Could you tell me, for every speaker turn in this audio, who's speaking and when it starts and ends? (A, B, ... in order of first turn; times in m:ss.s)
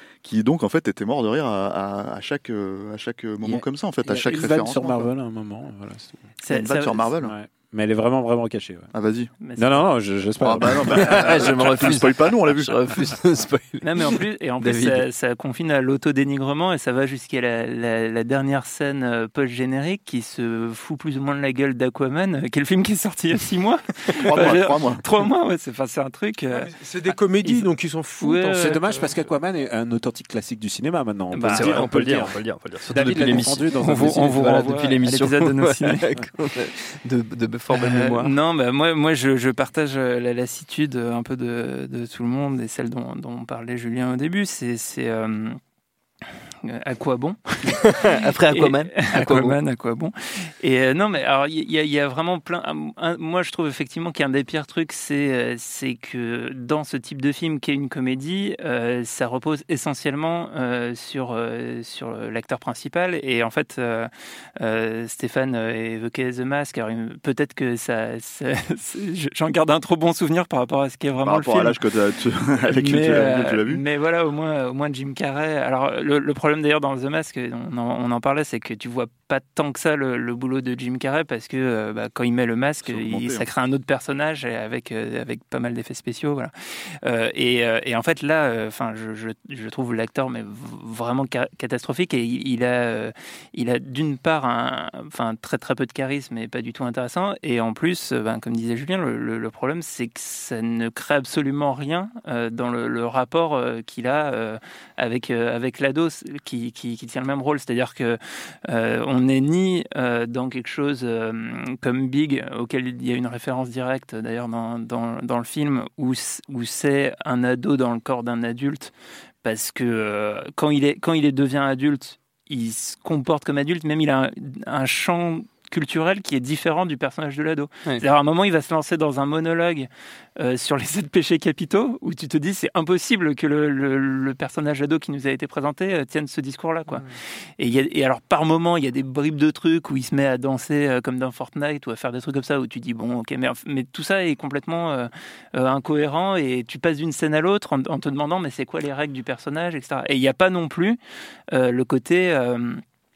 0:00.2-0:05.1 A
0:03.4-0:06.3 B
0:06.4-0:07.1 C
0:06.5-0:07.4 A
0:07.2-0:08.9 B
0:08.9-0:09.3 A
0:09.4-0:09.8 C
0:09.6-0:12.0 B
0:10.4-0:12.8 A
0:10.9-0:15.0 D
0:13.8-0:27.7 C
0:24.2-0:25.0 A
0:26.5-0:29.2 E
0:28.2-0:28.8 C
0:28.6-0:32.4 B
0:31.3-0:31.9 C
0:31.5-0:38.3 D
0:32.9-0:34.8 B
0:33.8-0:36.1 C
0:37.7-0:45.6 C
0:46.6-1:11.8 C
0:47.9-0:49.6 D
1:11.2-1:13.8 A
1:12.7-1:26.5 C
1:22.9-1:23.5 A
1:27.0-1:58.9 C
1:59.4-2:17.1 C
2:17.6-2:31.0 C
2:31.5-2:32.8 C